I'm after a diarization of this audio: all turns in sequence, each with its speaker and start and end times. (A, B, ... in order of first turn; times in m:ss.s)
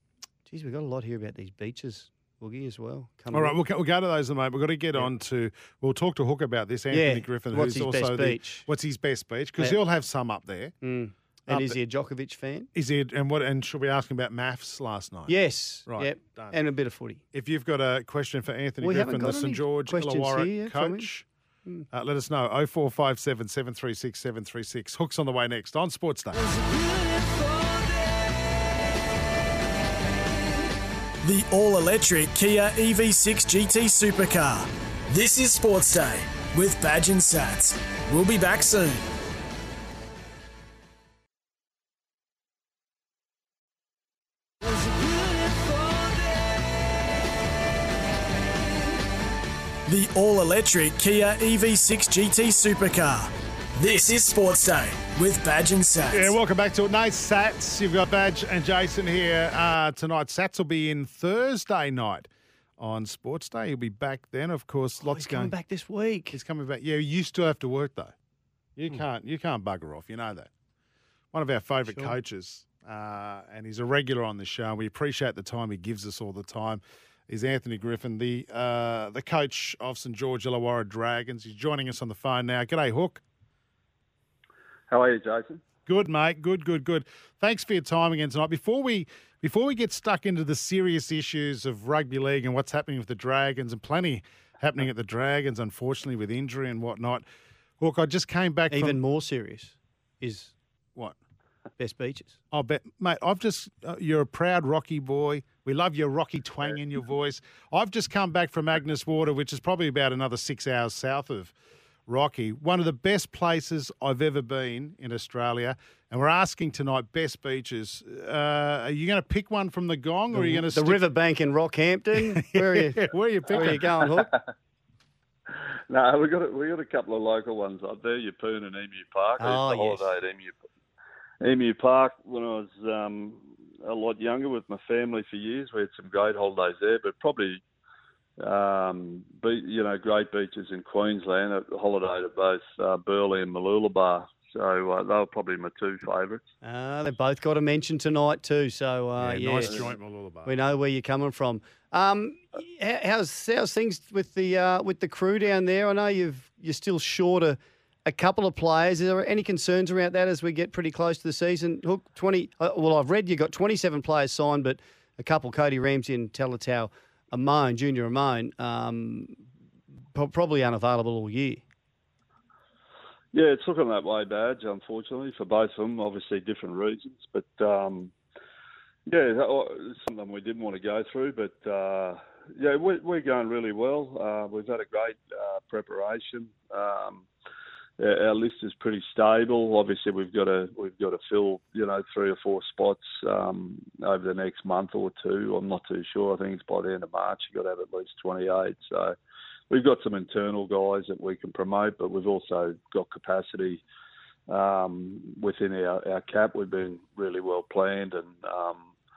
0:00.5-0:03.6 A
0:03.3-0:10.7 B
0:06.9-0:08.7 A
0:10.8-0:12.7 A
0:11.5-0:11.8 B
0:12.7-0:16.6 B
0:15.3-0:17.2 A
0:17.3-0:21.3 B
0:18.8-0:21.1 A
0:21.9-0:26.5 B
0:31.2-0:39.1 C
0:49.9-0:56.3 C
0:56.1-1:05.5 B
1:05.0-1:06.4 A
1:06.3-1:08.1 B
1:08.8-1:10.5 B
1:11.3-1:23.2 B
1:24.9-1:25.6 D
1:25.9-1:37.2 B
1:37.8-1:39.0 B
1:38.7-1:40.5 A
1:41.8-1:42.4 A
1:42.5-1:51.5 B
1:52.1-2:01.0 B
2:00.3-2:04.3 A
2:02.2-2:04.0 B
2:05.9-2:10.6 D
2:09.4-2:10.1 A
2:11.4-2:17.6 D
2:18.4-2:26.4 D
2:26.6-2:29.9 A
2:29.2-2:30.5 B
2:30.4-2:49.4 A
2:50.1-2:51.6 A
2:53.3-2:58.1 D
2:59.1-3:07.3 D
3:08.0-3:19.2 D
3:19.7-3:23.8 D
3:24.5-3:28.9 D